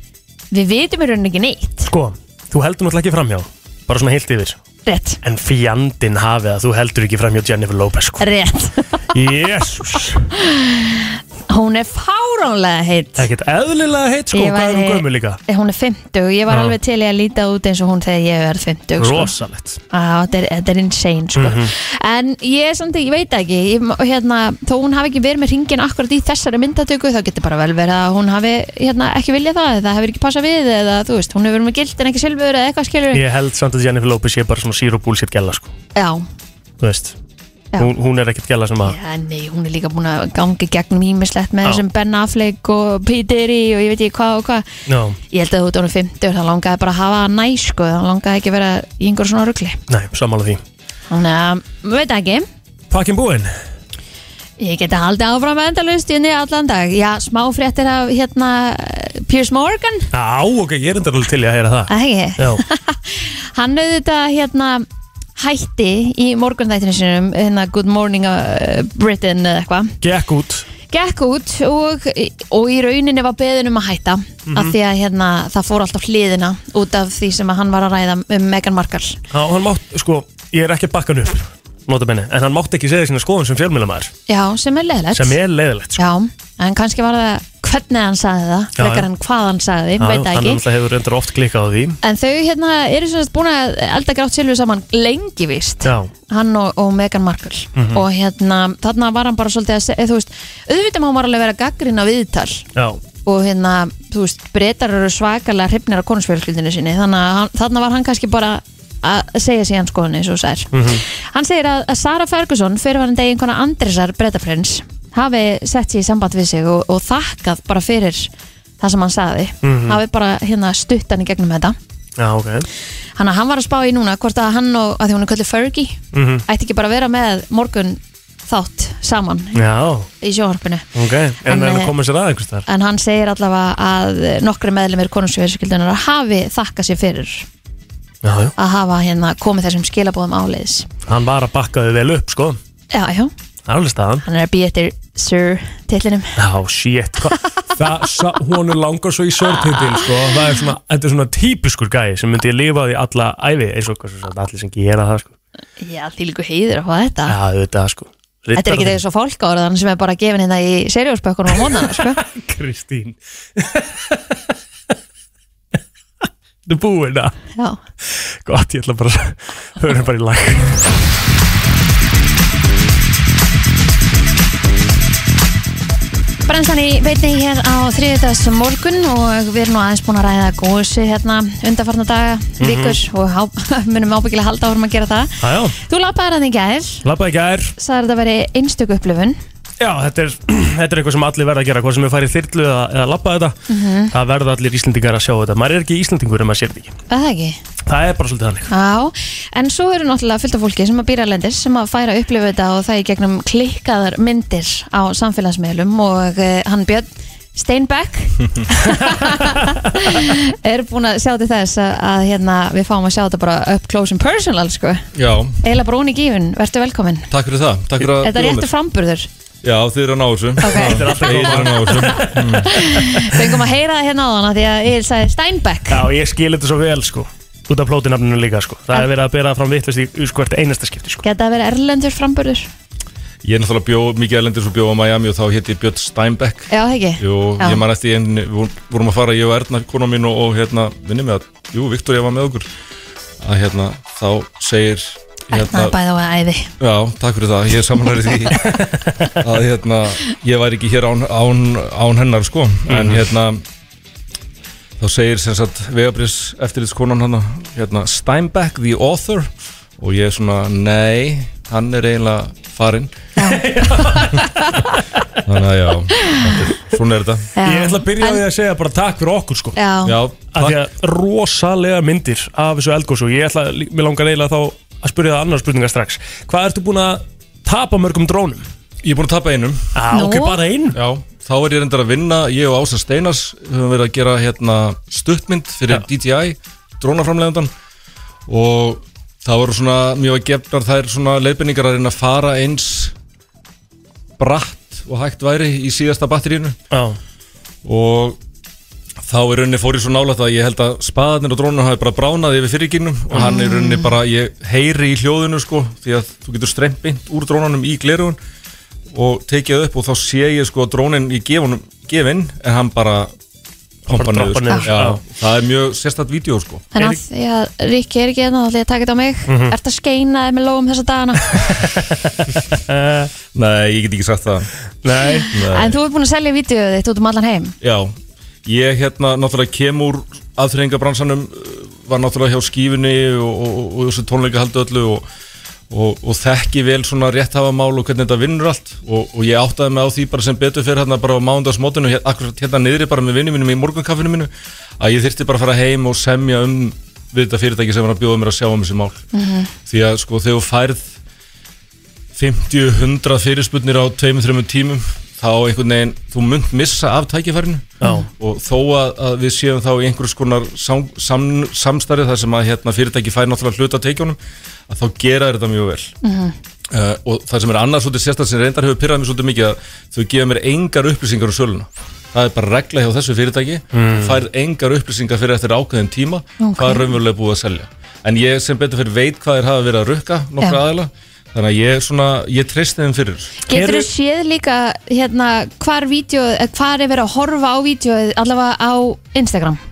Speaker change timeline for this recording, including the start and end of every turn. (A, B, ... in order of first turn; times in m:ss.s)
0:00.5-0:01.9 A
0:01.9-0:04.6 B
0:04.8-0:05.2 A
0:05.2-0:08.3 B
0:08.2-0:09.1 A
0:09.1-0:10.3 B
0:10.4-0:13.3 A
0:13.2-0:15.4 B
0:14.3-0:19.4 A
0:16.5-0:16.8 B
0:19.0-0:19.8 B
0:19.9-0:33.2 A
0:21.4-0:21.7 B
0:33.1-0:35.7 B
0:35.9-0:36.2 A
0:36.8-0:37.2 B
0:37.8-0:39.0 B
0:38.8-0:44.6 A
0:44.9-0:45.2 B
0:45.3-0:49.8 A
0:49.9-0:50.6 B
0:51.1-0:52.5 A
0:52.9-0:53.5 B
0:54.6-1:00.1 A
1:00.1-1:02.6 B
1:01.9-1:04.8 A
1:05.4-1:10.0 A
1:10.0-1:10.6 B
1:10.9-1:19.2 A
1:14.5-1:14.8 B
1:19.3-1:24.1 B
1:24.3-1:25.4 A
1:25.1-1:26.0 B
1:26.0-1:30.6 A
1:28.8-1:29.1 B
1:30.0-1:32.0 B
1:32.0-1:42.6 A
1:35.8-1:36.1 B
1:37.7-1:38.0 B
1:42.7-1:43.0 B
1:43.2-2:01.8 A
1:50.7-1:51.0 B
1:59.6-2:00.0 B
2:02.2-2:02.7 B
2:03.2-2:09.6 A
2:06.1-2:06.4 B
2:09.5-2:10.1 B
2:10.2-2:10.9 A
2:10.9-2:12.6 B
2:11.4-2:11.9 A
2:12.7-2:17.5 A
2:18.2-2:18.5 B
2:18.6-2:20.9 A
2:21.1-2:22.6 B
2:22.9-2:23.3 A
2:23.6-2:24.2 B
2:24.2-2:26.4 A
2:26.4-2:35.3 B
2:29.6-2:30.0 A
2:35.8-2:37.4 A
2:37.3-2:39.0 B
2:38.6-2:42.2 A
2:41.5-2:44.4 B
2:46.6-2:47.3 B
2:48.0-2:50.8 B
2:56.5-3:07.0 A
3:02.6-3:03.0 B
3:05.4-3:05.8 B
3:07.0-3:07.7 B
3:07.8-3:09.4 A
3:09.8-3:13.6 B
3:13.7-3:14.1 A
3:14.1-3:16.9 B
3:17.1-3:17.6 A
3:17.8-3:18.7 B
3:18.7-3:35.0 A
3:35.1-3:35.6 C
3:35.6-3:37.3 A
3:37.3-3:38.7 C
3:38.2-3:39.3 A
3:39.6-3:42.8 C
3:40.6-3:46.0 A
3:40.6-3:43.5 B
3:45.9-3:51.2 B
3:51.2-3:52.7 A
3:53.4-4:02.7 C
3:56.7-3:57.8 A
4:03.4-4:06.0 C
4:05.5-4:06.7 A
4:06.8-4:08.8 C
4:08.7-4:09.3 B
4:09.4-4:13.6 C
4:12.9-4:13.2 B
4:15.0-4:23.1 C
4:23.4-4:23.6 A
4:23.4-4:24.5 B
4:25.4-4:27.5 C
4:27.6-4:28.4 A
4:27.6-4:29.8 B
4:29.8-4:30.2 A
4:30.0-4:30.8 C
4:30.5-4:38.6 B
4:39.0-4:39.8 C
4:39.9-4:41.0 B
4:40.1-4:40.6 A
4:40.9-4:47.7 C
4:48.5-4:53.1 C
4:54.4-4:56.8 C
4:56.9-4:57.2 B
4:57.8-4:58.4 C
4:59.2-5:08.4 C
5:03.3-5:04.1 A
5:09.1-5:13.3 C
5:14.1-5:16.9 C
5:14.1-5:15.2 B
5:16.9-5:21.7 A
5:19.5-5:19.7 B
5:22.7-5:23.3 B
5:23.5-5:24.7 C
5:25.0-5:25.5 B
5:25.2-5:27.7 A
5:25.5-5:26.0 C
5:27.8-5:35.2 C
5:35.9-5:49.2 C
5:49.3-5:49.7 A
5:49.9-5:51.1 C
5:52.3-6:04.4 C
5:58.0-5:58.3 A
6:04.9-6:06.1 C
6:06.2-6:06.5 A
6:06.9-6:23.6 C
6:13.9-6:14.4 B
6:16.6-6:17.2 A
6:23.7-6:29.8 A
6:23.7-6:24.1 B